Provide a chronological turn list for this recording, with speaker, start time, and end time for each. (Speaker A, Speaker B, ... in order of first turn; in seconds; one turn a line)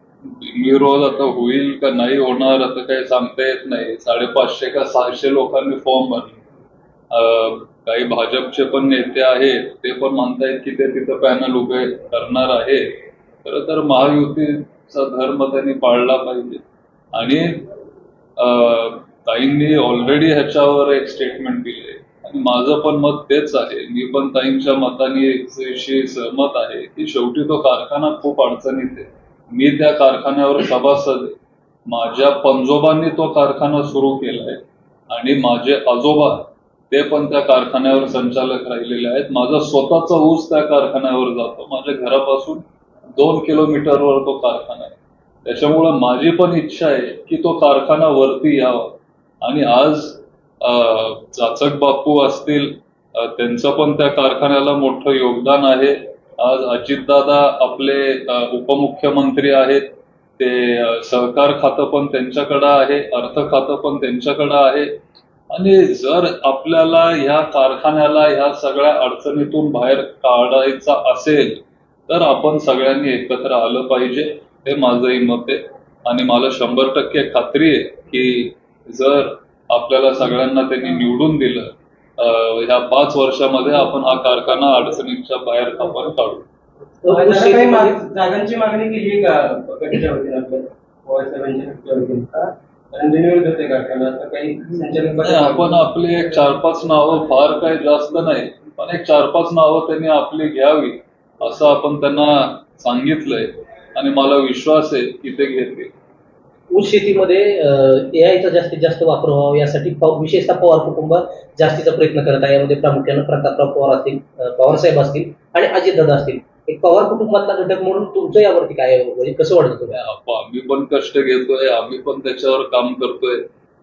Speaker A: 0.4-6.4
Speaker A: 7.1-16.6
Speaker A: 17.1-17.7
Speaker A: 18.4-31.4
Speaker A: 31.9-42.6
Speaker A: 43.1-59.9
Speaker A: 60.4-64.9
Speaker A: 65.5-81.7
Speaker A: 82.2-86.5
Speaker B: 87.0-88.0
Speaker C: 87.1-95.9
Speaker A: 95.2-105.9
Speaker B: 106.7-120.0
Speaker A: 119.9-123.4